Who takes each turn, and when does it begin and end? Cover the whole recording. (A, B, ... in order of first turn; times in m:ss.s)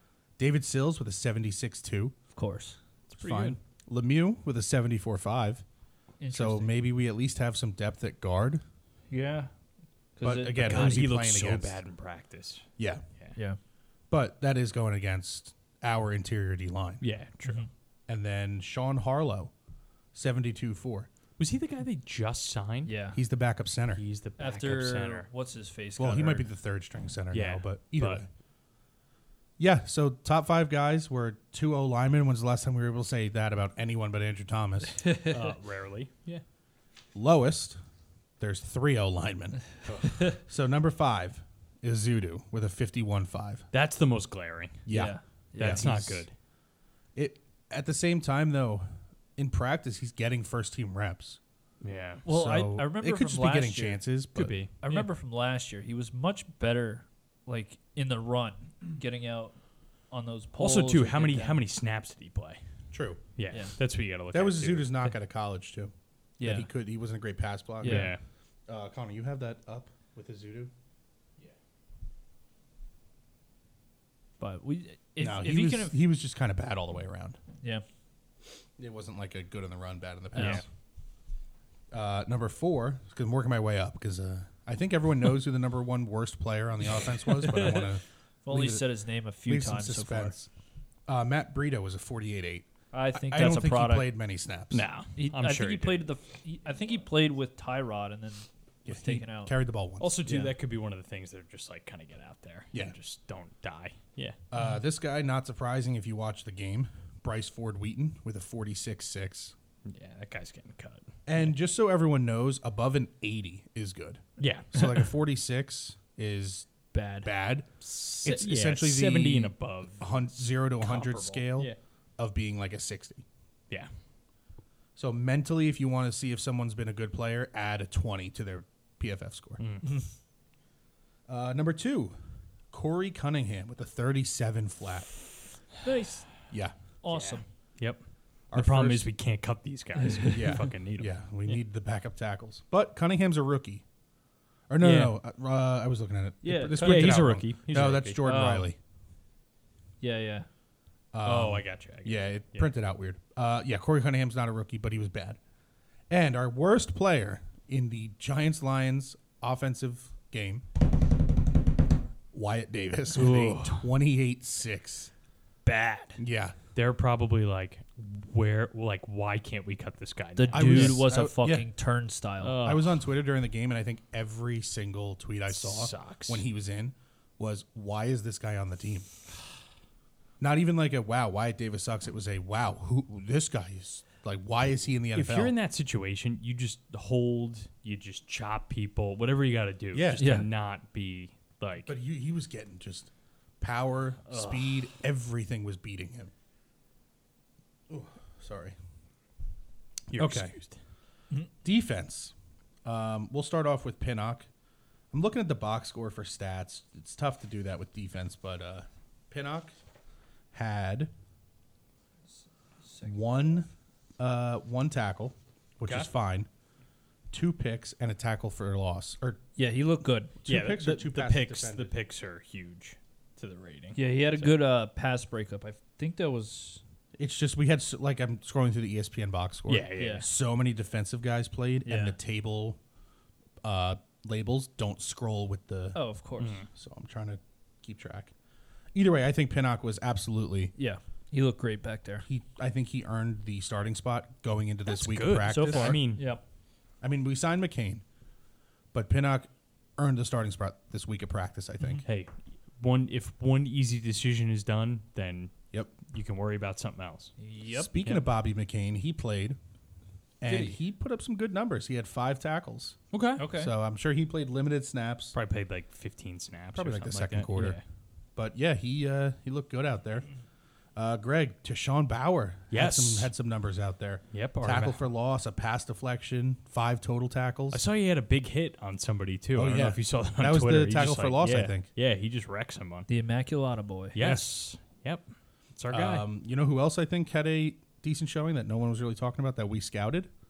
0:00.4-0:02.1 A
0:02.3-0:02.8 B
0:03.1-0:03.6 C
0:03.2-0:05.6 A
0:06.2-0:06.8 B
0:06.3-0:08.6 A
0:09.1-0:09.5 B
0:10.2-0:11.1 B
0:10.2-0:11.8 A
0:10.6-0:13.4 C
0:12.8-0:13.0 A
0:14.1-0:17.0 A
0:17.0-0:17.6 C
0:18.1-0:19.5 A
0:20.1-0:21.1 A
0:21.4-0:22.9 C
0:22.8-0:23.2 B
0:23.1-0:24.0 A
0:24.0-0:25.3 C
0:24.4-0:26.5 B
0:26.0-0:28.3 A
0:27.3-0:28.2 C
0:29.6-0:35.0 A
0:35.0-0:35.3 B
0:35.2-0:36.4 C
0:37.1-0:37.8 A
0:38.4-0:39.7 A
0:39.8-0:40.3 C
0:40.2-0:43.6 A
0:43.7-0:46.3 C
0:44.8-0:46.3 A
0:44.9-0:46.0 B
0:47.1-0:51.4 A
0:51.8-0:52.2 C
0:52.2-0:54.0 B
0:52.2-0:54.6 A
0:54.3-0:55.0 C
0:54.8-0:59.6 B
1:00.1-1:01.6 B
1:00.6-1:02.6 C
1:02.9-1:03.2 A
1:03.4-1:05.0 C
1:04.3-1:08.1 A
1:06.4-1:06.7 B
1:07.8-1:08.1 B
1:07.8-1:08.2 C
1:08.7-1:10.7 A
1:14.4-1:16.0 B
1:15.2-1:17.4 A
1:18.8-1:20.6 A
1:20.4-1:20.6 B
1:20.4-1:20.6 C
1:21.9-1:28.9 A
1:27.4-1:27.9 B
1:28.4-1:30.4 B
1:29.4-1:30.5 A
1:31.1-1:34.8 A
1:32.9-1:34.1 B
1:34.7-1:36.0 C
1:35.2-1:39.5 B
1:38.8-1:40.1 A
1:40.0-1:44.4 C
1:40.2-1:40.5 B
1:44.5-1:49.5 A
1:49.8-1:51.5 C
1:51.3-1:56.7 A
1:54.4-1:55.1 C
1:56.9-1:57.3 B
1:57.2-2:03.2 A
1:58.1-2:00.1 C
2:00.8-2:01.8 C
2:05.0-2:09.6 A
2:09.6-2:09.9 C
2:11.3-2:12.2 A
2:12.7-2:15.1 A
2:15.8-2:16.3 B
2:17.0-2:17.4 B
2:17.1-2:18.0 C
2:18.5-2:19.1 A
2:18.5-2:21.1 C
2:20.3-2:23.8 A
2:24.7-2:28.8 A
2:24.8-2:25.1 C
2:26.4-2:27.2 B
2:26.8-2:28.2 C
2:28.2-2:28.7 B
2:30.0-2:30.5 B
2:31.1-2:35.4 A
2:31.2-2:32.7 C
2:36.1-2:40.6 A
2:42.3-2:45.1 A
2:43.1-2:43.9 C
2:45.6-2:46.2 B
2:46.2-2:46.6 A
2:46.7-2:51.0 C
2:50.4-2:52.6 B
2:50.5-2:51.7 A
2:52.4-2:53.0 C
2:52.6-2:59.1 A
2:55.5-2:56.4 C
3:00.4-3:05.5 A
3:05.1-3:11.9 C
3:09.9-3:10.4 A
3:10.2-3:10.5 B
3:11.8-3:16.3 A
3:14.3-3:14.6 C
3:17.9-3:18.8 A
3:20.1-3:20.8 C
3:20.1-3:20.5 A
3:21.6-3:22.3 A
3:22.8-3:24.5 A
3:25.1-3:29.7 A
3:30.5-3:31.1 A
3:32.8-3:33.5 B
3:33.0-3:33.7 A
3:34.2-3:36.5 A
3:35.8-3:36.1 C
3:37.3-3:39.4 A
3:39.6-3:40.3 B
3:40.4-3:41.9 A
3:40.4-3:44.6 C
3:43.9-3:46.8 B
3:47.1-3:52.8 A
3:49.7-3:50.3 C
3:50.0-3:50.3 B
3:51.8-3:52.2 B
3:53.6-3:56.0 A
3:55.9-3:56.6 B
3:56.4-3:56.7 C
3:56.7-3:58.3 A
3:58.9-4:00.7 A
4:00.8-4:02.2 B
4:02.2-4:06.0 A
4:04.9-4:06.3 C
4:05.5-4:06.4 B
4:07.0-4:08.0 A
4:08.9-4:12.0 A
4:12.0-4:17.3 C
4:17.4-4:17.9 B
4:17.7-4:19.6 A
4:20.4-4:23.0 A
4:20.4-4:20.8 B
4:23.1-4:23.5 C
4:23.4-4:23.7 B
4:23.5-4:25.3 A
4:25.3-4:27.8 C
4:26.7-4:27.8 A
4:28.4-4:30.3 A
4:31.0-4:37.8 A
4:32.7-4:33.3 C
4:34.3-4:35.0 C
4:37.7-4:43.1 C
4:39.5-4:41.9 A
4:43.1-4:44.2 B
4:44.1-4:46.2 C
4:44.2-4:44.5 A
4:45.9-4:50.3 A